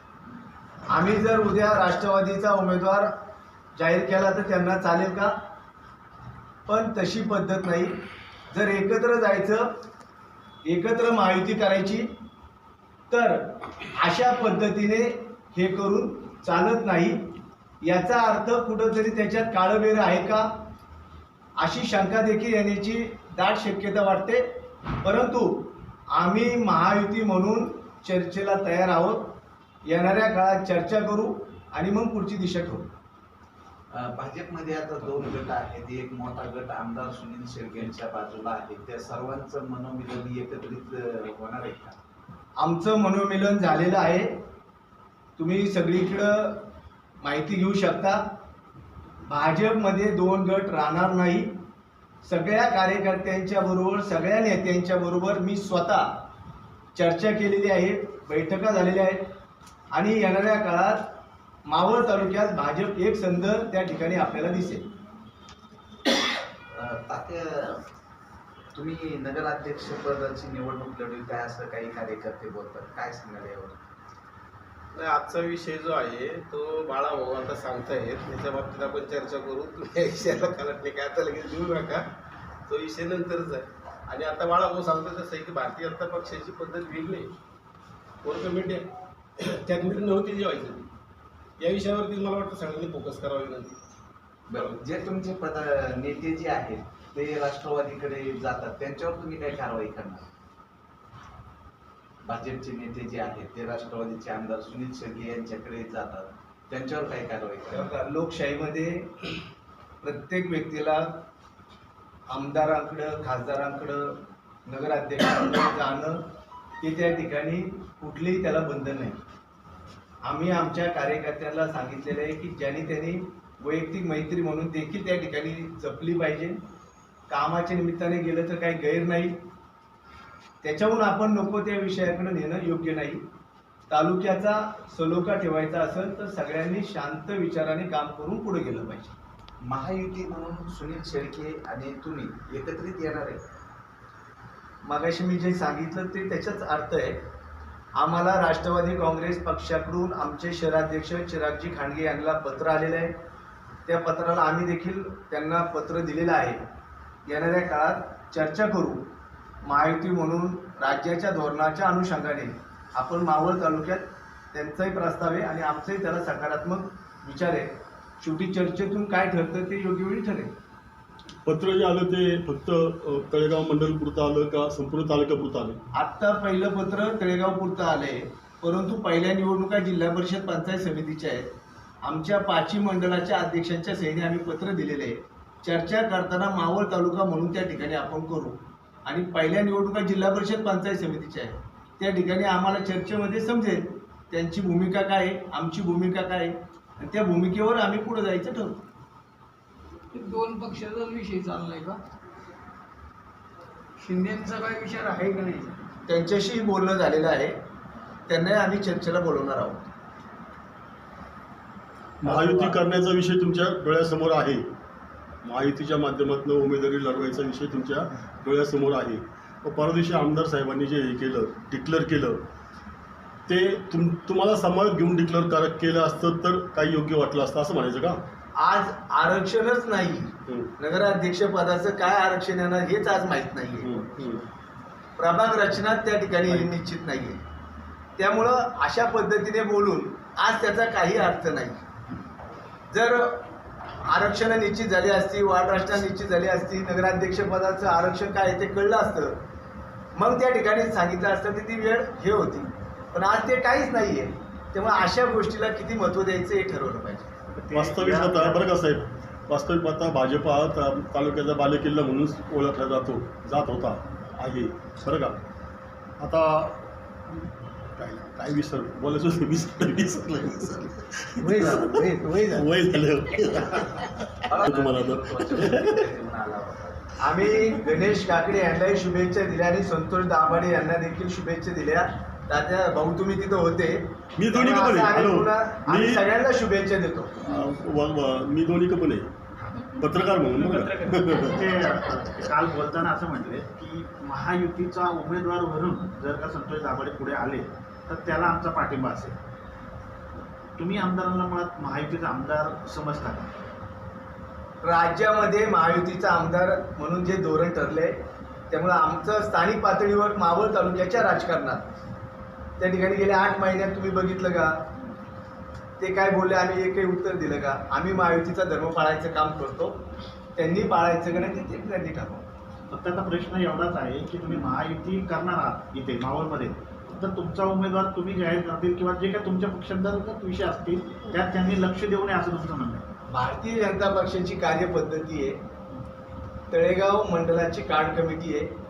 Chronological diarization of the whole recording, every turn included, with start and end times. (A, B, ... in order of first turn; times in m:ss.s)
0:00.9-0:03.1 A
0:03.8-0:05.3 A
0:06.7-0:08.0 A
0:08.5-0:09.7 A
0:10.6-0:12.1 A
0:13.1-0:13.4 A
0:13.9-0:17.2 A
0:17.8-0:20.5 A
0:21.6-0:24.4 A
0:25.0-0:29.4 A
0:29.9-0:32.9 A
0:33.9-0:42.0 B
0:42.6-0:44.3 A
0:45.4-0:46.7 A
0:47.2-0:48.2 A
0:49.3-0:51.5 A
0:52.2-0:56.1 A
0:57.0-0:59.3 A
0:59.9-1:01.1 A
1:01.7-1:04.9 A
1:06.7-1:07.8 B
1:08.7-1:13.8 B
1:14.9-1:22.1 C
1:22.7-1:27.3 C
1:28.2-1:28.9 C
1:29.4-1:30.9 C
1:31.6-1:33.8 C
1:34.5-1:40.3 B
1:34.6-1:34.8 C
1:42.2-1:47.9 B
1:47.7-1:49.1 A
1:50.0-1:51.1 A
1:52.3-1:56.2 A
1:56.8-1:59.2 A
2:00.2-2:06.6 A
2:07.3-2:09.4 A
2:10.6-2:13.2 A
2:13.9-2:19.1 A
2:19.6-2:23.4 B
2:24.8-2:27.2 A
2:28.0-2:33.1 A
2:33.9-2:36.6 A
2:37.3-2:39.0 A
2:39.6-2:47.7 A
2:48.2-2:50.5 A
2:51.4-2:55.8 D
2:55.9-3:01.5 A
3:02.0-3:18.8 A
3:20.1-3:22.0 E
3:24.0-3:25.8 E
3:26.1-3:27.6 A
3:28.3-3:29.8 A
3:32.2-3:34.7 D
3:35.4-3:42.4 D
3:43.5-3:48.2 D
3:48.6-3:54.1 A
3:53.8-3:54.4 D
3:55.2-3:57.4 A
3:58.2-4:01.8 A
4:02.9-4:03.4 A
4:04.1-4:09.4 A
4:10.2-4:17.4 A
4:17.6-4:18.6 F
4:17.7-4:25.4 D
4:26.2-4:26.8 D
4:28.0-4:36.1 D
4:31.4-4:32.6 F
4:34.5-4:37.1 B
4:37.2-4:47.3 A
4:44.4-4:46.2 D
4:47.4-4:49.3 D
4:50.0-4:51.6 D
4:51.4-4:59.4 F
5:00.8-5:03.5 F
5:04.8-5:08.2 A
5:08.7-5:11.9 A
5:12.8-5:14.7 A
5:16.0-5:20.0 A
5:20.6-5:22.5 A
5:22.9-5:33.0 F
5:33.3-5:35.6 A
5:36.7-5:38.7 A